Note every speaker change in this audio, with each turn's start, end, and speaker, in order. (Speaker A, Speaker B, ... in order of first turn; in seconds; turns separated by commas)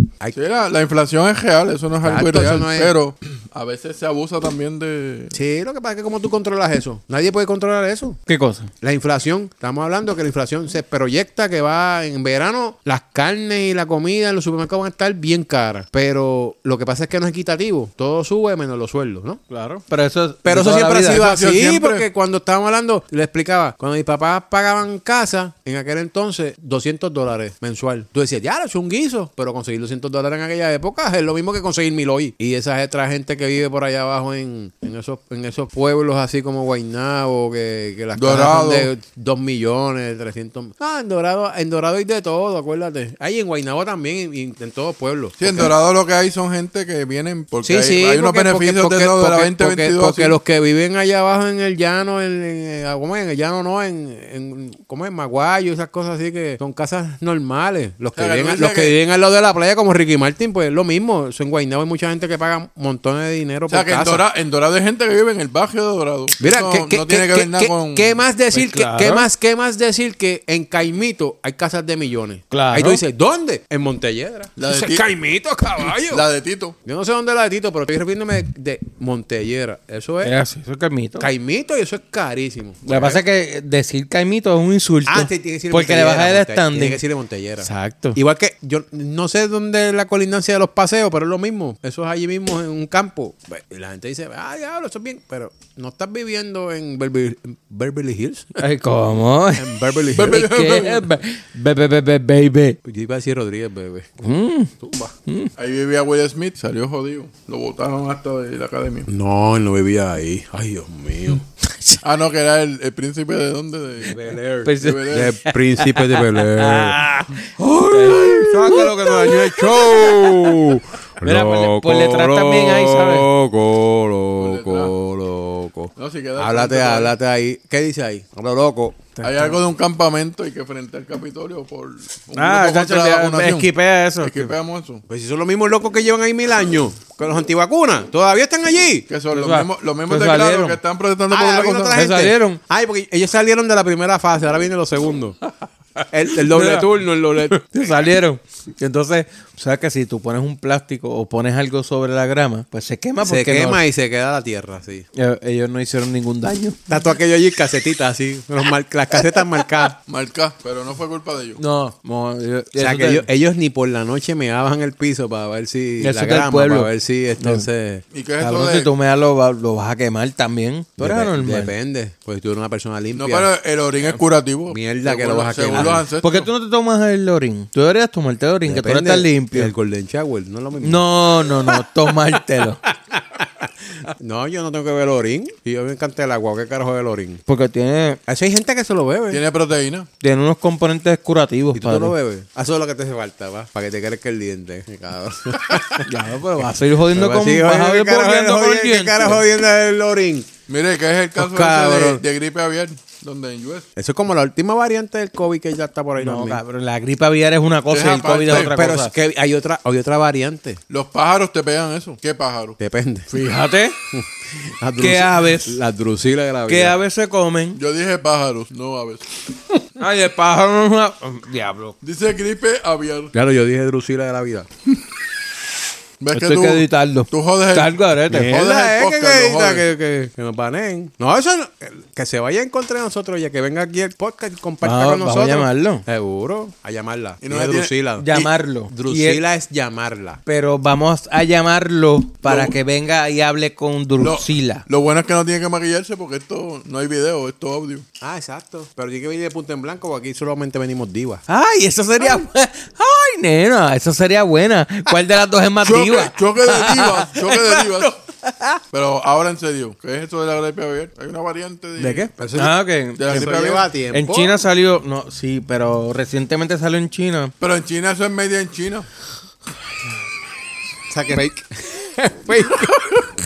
Speaker A: 0.3-5.3, Speaker B: 2.0-2.9, Speaker B: 5.3-8.2, Speaker C: 8.3-8.7, Speaker B: 8.8-19.4, Speaker C: 19.5-21.2, Speaker B: 20.4-45.7, Speaker A: 21.1-22.0, Speaker A: 38.1-38.9, Speaker A: 45.4-50.4, Speaker B: 47.6-64.2, Speaker A: 58.1-59.0, Speaker A: 63.7-68.2, Speaker B: 66.4-76.2, Speaker C: 68.5-69.3, Speaker C: 72.5-73.0, Speaker A: 74.6-75.1, Speaker A: 75.8-76.8, Speaker B: 76.8-80.3, Speaker C: 80.2-81.3, Speaker B: 81.2-83.2, Speaker C: 82.8-87.0, Speaker B: 85.1-98.6, Speaker C: 87.6-88.2, Speaker C: 98.6-102.8, Speaker B: 99.5-100.5, Speaker A: 100.1-101.1, Speaker B: 102.8-104.2, Speaker C: 104.2-104.7, Speaker B: 104.8-105.1, Speaker C: 105.2-105.5, Speaker A: 105.6-109.1, Speaker B: 109.1-111.4, Speaker C: 111.6-112.0, Speaker A: 112.0-114.2, Speaker B: 114.0-129.2, Speaker C: 114.6-120.6, Speaker A: 114.8-115.3, Speaker C: 121.2-123.3, Speaker A: 124.4-124.9, Speaker A: 126.0-127.1, Speaker C: 129.2-129.6, Speaker A: 129.2-133.7, Speaker C: 132.3-134.5, Speaker A: 134.2-135.0, Speaker B: 135.1-139.1, Speaker A: 139.1-142.0, Speaker C: 139.3-140.8, Speaker B: 141.3-145.4, Speaker C: 141.9-142.6, Speaker B: 146.1-147.8, Speaker C: 146.4-146.9, Speaker C: 147.7-153.8, Speaker B: 153.2-155.1, Speaker C: 155.2-156.8, Speaker B: 156.9-160.0, Speaker A: 160.1-161.6, Speaker C: 161.6-163.3, Speaker B: 162.8-168.0, Speaker C: 166.0-167.7, Speaker A: 168.1-168.9, Speaker C: 168.4-171.7, Speaker B: 171.0-173.5, Speaker A: 173.1-176.5, Speaker B: 174.7-176.1, Speaker C: 175.7-179.7, Speaker B: 178.7-187.4, Speaker C: 180.8-182.8, Speaker C: 187.5-188.2, Speaker B: 188.3-189.4, Speaker A: 189.3-190.1, Speaker C: 190.2-192.1, Speaker B: 191.7-196.1, Speaker C: 196.0-199.4, Speaker B: 197.1-200.5, Speaker A: 200.7-203.9, Speaker B: 201.3-202.2, Speaker B: 203.9-206.6, Speaker C: 206.2-209.1, Speaker A: 207.9-208.7, Speaker B: 208.4-210.8, Speaker A: 210.9-212.8, Speaker B: 212.8-213.3, Speaker C: 213.3-213.9, Speaker B: 214.1-217.0, Speaker C: 215.0-215.8, Speaker C: 216.7-217.8, Speaker A: 217.8-219.2, Speaker C: 220.0-221.9, Speaker A: 222.0-223.3, Speaker B: 223.3-224.7, Speaker A: 226.2-229.8, Speaker C: 226.3-228.5, Speaker B: 228.3-240.4, Speaker C: 234.8-236.0, Speaker A: 237.4-237.9, Speaker C: 238.2-239.4, Speaker C: 240.4-244.8, Speaker A: 242.4-242.7, Speaker A: 244.2-248.0, Speaker B: 248.2-251.4, Speaker C: 251.5-258.1, Speaker A: 255.8-258.2, Speaker A: 258.9-262.3, Speaker B: 262.0-264.6, Speaker C: 262.5-263.5, Speaker A: 263.2-263.9, Speaker C: 264.1-267.5, Speaker A: 267.6-269.1, Speaker B: 271.1-273.1, Speaker A: 272.9-273.2